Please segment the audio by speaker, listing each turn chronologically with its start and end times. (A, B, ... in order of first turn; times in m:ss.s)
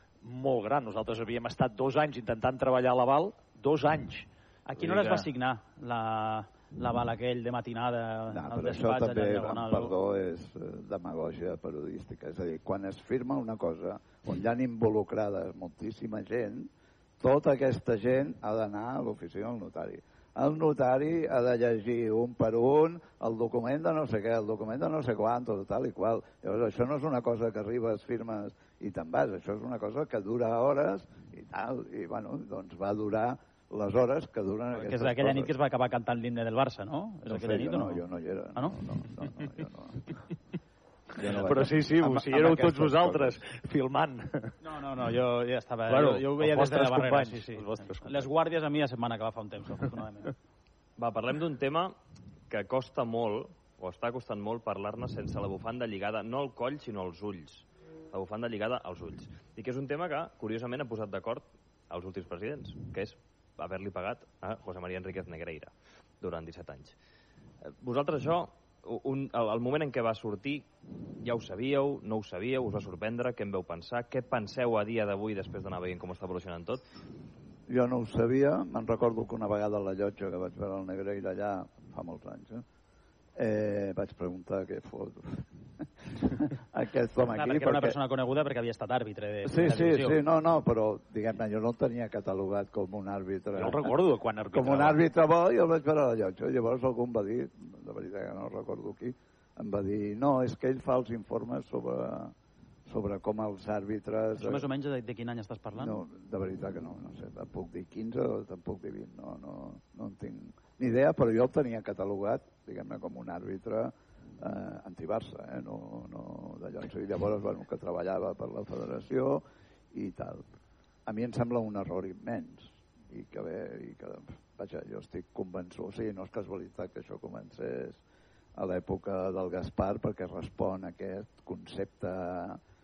0:00.2-0:05.3 A
0:04.7-0:09.9 B
0:08.3-0:35.6 C
0:34.8-0:38.0 B
0:37.3-0:40.1 C
0:41.2-0:43.4 C
0:41.2-0:44.5 A
0:44.6-0:50.3 B
0:45.9-0:48.3 A
0:51.0-0:52.0 D
0:52.5-1:07.0 D
1:07.6-1:10.7 D
1:11.2-1:16.8 D
1:17.7-1:22.6 C
1:23.4-1:25.4 C
1:26.2-1:28.0 C
1:27.3-1:30.2 B
1:29.4-1:33.9 C
1:33.6-1:35.0 A
1:34.5-1:42.3 C
1:42.9-1:44.7 C
1:44.4-1:46.0 B
1:45.8-2:00.5 C
2:01.1-2:08.0 C
2:08.6-2:12.6 C